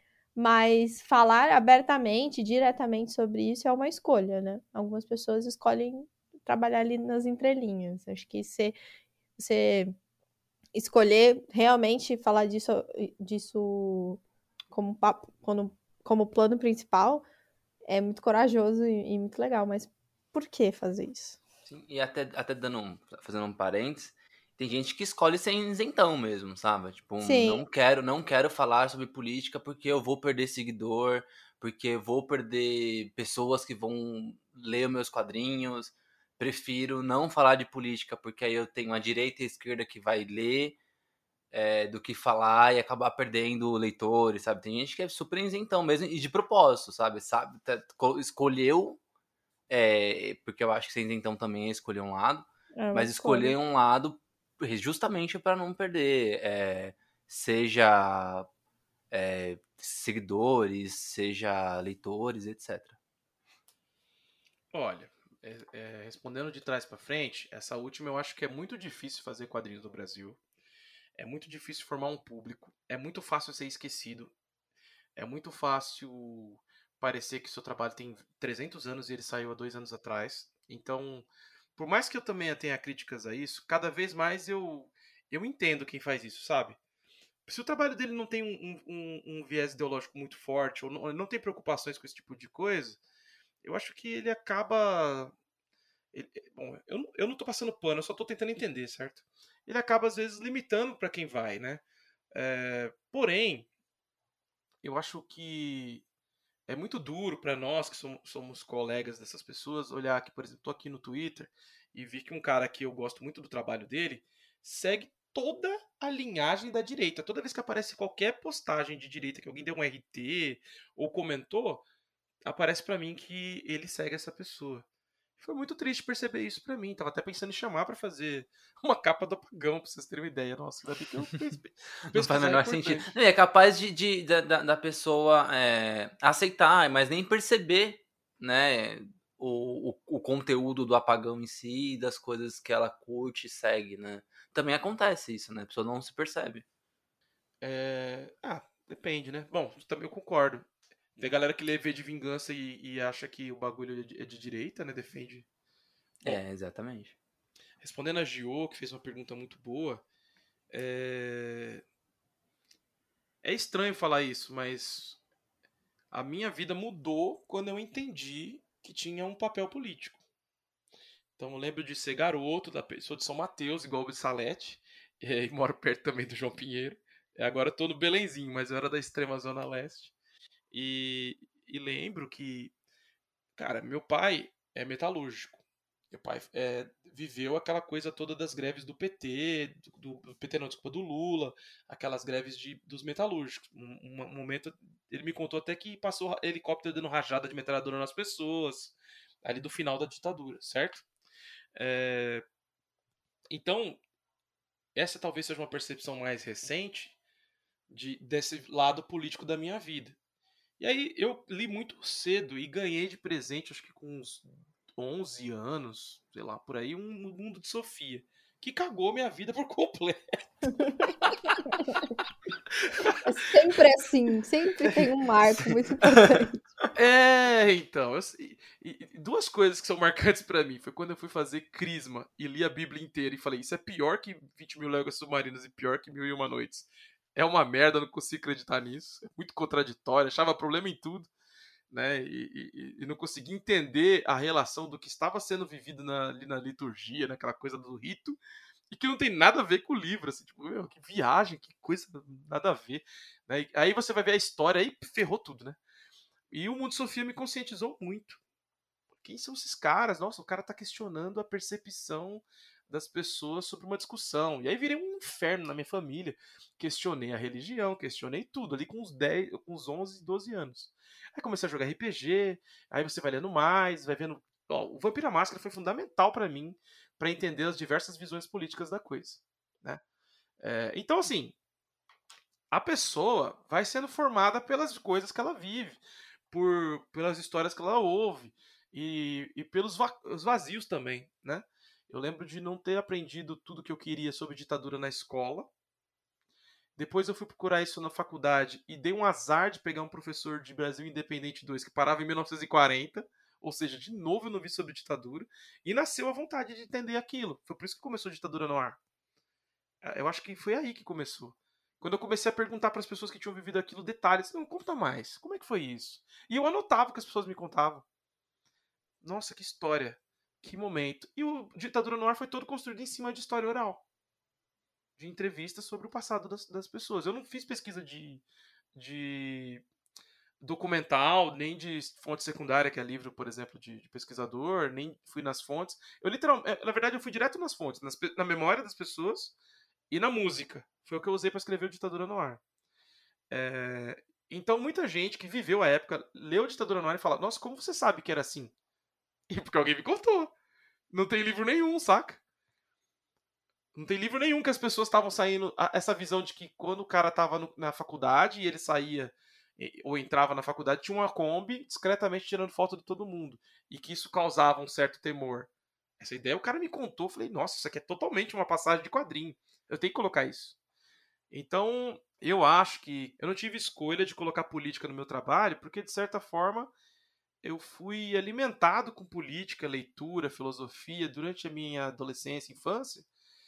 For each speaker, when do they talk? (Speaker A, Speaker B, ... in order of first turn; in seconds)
Speaker A: 0.3-8.8, 9.4-9.9, 10.8-14.2, 14.7-17.2, 17.9-21.4, 27.2-27.6, 52.8-53.5, 221.7-222.0, 223.2-226.6
Speaker B: 21.7-40.8, 41.5-49.0, 49.7-58.5, 59.1-63.0, 132.1-146.7, 156.2-157.2
Speaker C: 64.7-70.4, 71.2-74.3, 75.2-86.8, 87.5-93.0, 93.6-95.3, 96.1-101.8, 102.3-103.7, 104.8-106.0, 106.7-121.8, 122.5-124.8, 125.4-133.2, 147.6-155.5, 157.8-160.0, 160.7-161.8, 163.4-165.2, 166.1-170.2, 171.4-180.1, 180.7-182.7, 183.6-201.1, 201.8-202.4, 203.5-204.0, 204.9-207.2, 207.9-210.2, 210.8-220.2, 222.8-223.2, 226.9-241.3, 241.9-248.4, 248.9-255.8, 256.5-258.4, 259.2-280.0, 280.6-281.6, 282.7-286.0, 286.5-295.7, 297.0-309.0, 310.0-318.1, 319.2-324.0, 325.2-328.4, 328.9-329.8, 330.6-339.6, 340.1-342.6, 343.5-348.7, 349.5-350.5, 351.1-352.4, 353.9-370.8, 371.5-376.9, 377.6-383.3